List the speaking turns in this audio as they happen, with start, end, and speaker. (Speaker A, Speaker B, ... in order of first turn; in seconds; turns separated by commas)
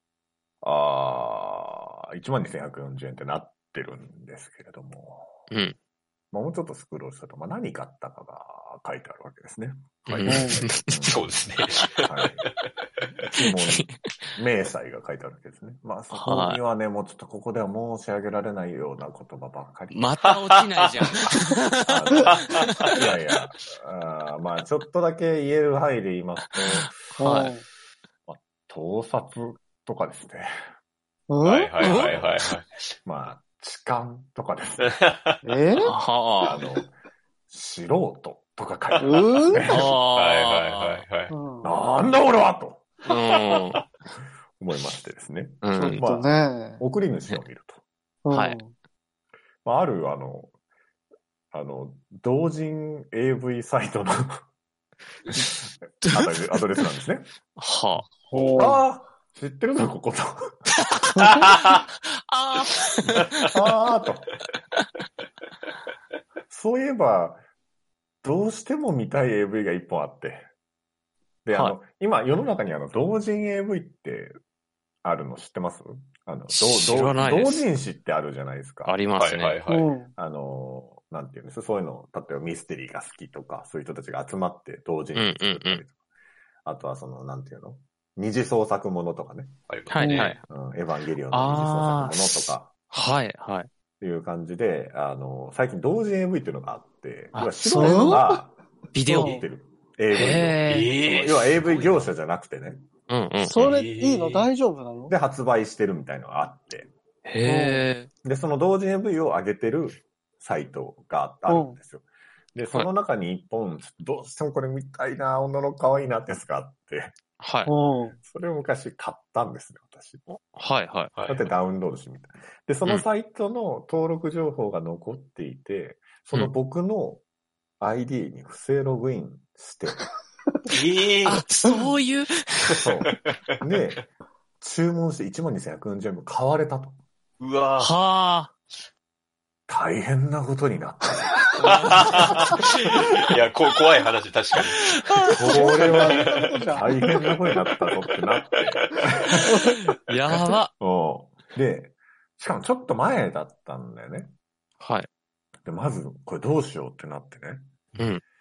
Speaker A: 0.6-5.4, Speaker A: 6.3-11.4, Speaker B: 10.1-10.9, Speaker C: 10.3-10.6, Speaker D: 11.1-12.1, Speaker A: 12.0-12.4, Speaker A: 13.2-20.1, Speaker B: 13.4-13.9, Speaker B: 16.1-16.6, Speaker B: 19.9-22.8, Speaker A: 21.8-27.0, Speaker D: 22.5-23.0, Speaker C: 27.2-27.6, Speaker B: 27.2-27.5, Speaker A: 28.3-30.5, Speaker C: 31.3-32.1, Speaker D: 31.4-32.7, Speaker A: 31.9-32.4, Speaker A: 33.1-34.9, Speaker D: 34.9-35.4, Speaker C: 35.4-35.9, Speaker B: 35.8-36.6, Speaker A: 36.4-36.9, Speaker A: 37.5-40.0, Speaker C: 39.0-39.6, Speaker B: 39.7-41.0, Speaker D: 40.1-41.3, Speaker C: 41.3-41.8, Speaker A: 41.6-42.9, Speaker B: 43.0-43.8, Speaker A: 44.6-47.8, Speaker B: 45.6-46.0, Speaker C: 45.8-46.8, Speaker C: 48.2-48.7, Speaker B: 48.3-48.6, Speaker A: 49.6-50.5, Speaker A: 51.5-54.4, Speaker A: 55.4-57.3, Speaker B: 56.0-56.9, Speaker B: 57.6-58.1, Speaker C: 58.2-58.8, Speaker D: 58.3-58.7, Speaker A: 58.6-60.5, Speaker B: 61.0-61.5, Speaker D: 61.2-61.8, Speaker B: 62.0-63.5, Speaker A: 63.5-64.3, Speaker A: 66.5-67.4, Speaker A: 68.2-70.5, Speaker A: 71.5-74.3, Speaker A: 75.0-79.0, Speaker B: 76.5-77.6, Speaker B: 78.8-79.6, Speaker D: 79.2-79.9, Speaker C: 79.7-80.1, Speaker A: 80.2-85.9, Speaker B: 85.2-85.8, Speaker A: 86.7-89.5, Speaker D: 89.7-90.3, Speaker B: 89.9-90.4, Speaker C: 90.0-90.3, Speaker A: 90.5-92.9, Speaker B: 91.3-93.7, Speaker A: 94.0-98.5, Speaker B: 97.3-98.2, Speaker C: 97.8-98.3, Speaker B: 98.9-99.4, Speaker A: 99.0-102.8, Speaker C: 99.1-99.4, Speaker B: 100.1-100.9, Speaker D: 100.7-102.1, Speaker B: 103.1-103.6, Speaker C: 103.4-105.1, Speaker D: 103.5-104.5, Speaker A: 105.1-106.9, Speaker B: 107.2-108.1, Speaker C: 107.4-107.8, Speaker A: 108.2-117.1, Speaker C: 111.5-111.8, Speaker B: 117.4-117.7, Speaker C: 117.7-118.2, Speaker A: 118.2-120.3, Speaker B: 120.3-121.1, Speaker D: 121.2-121.5, Speaker A: 121.3-127.2, Speaker A: 127.8-130.0, Speaker D: 130.7-131.5, Speaker B: 131.2-132.8, Speaker A: 132.8-134.1, Speaker A: 134.6-136.9, Speaker D: 137.4-137.9, Speaker B: 137.8-138.5, Speaker A: 139.7-142.6, Speaker D: 141.6-145.0, Speaker B: 144.8-145.7, Speaker A: 145.3-149.8, Speaker C: 145.5-147.0, Speaker D: 145.8-146.2, Speaker C: 149.5-149.7, Speaker B: 150.1-150.7, Speaker A: 150.8-154.3, Speaker B: 154.8-155.1, Speaker A: 155.7-157.6, Speaker B: 158.0-158.2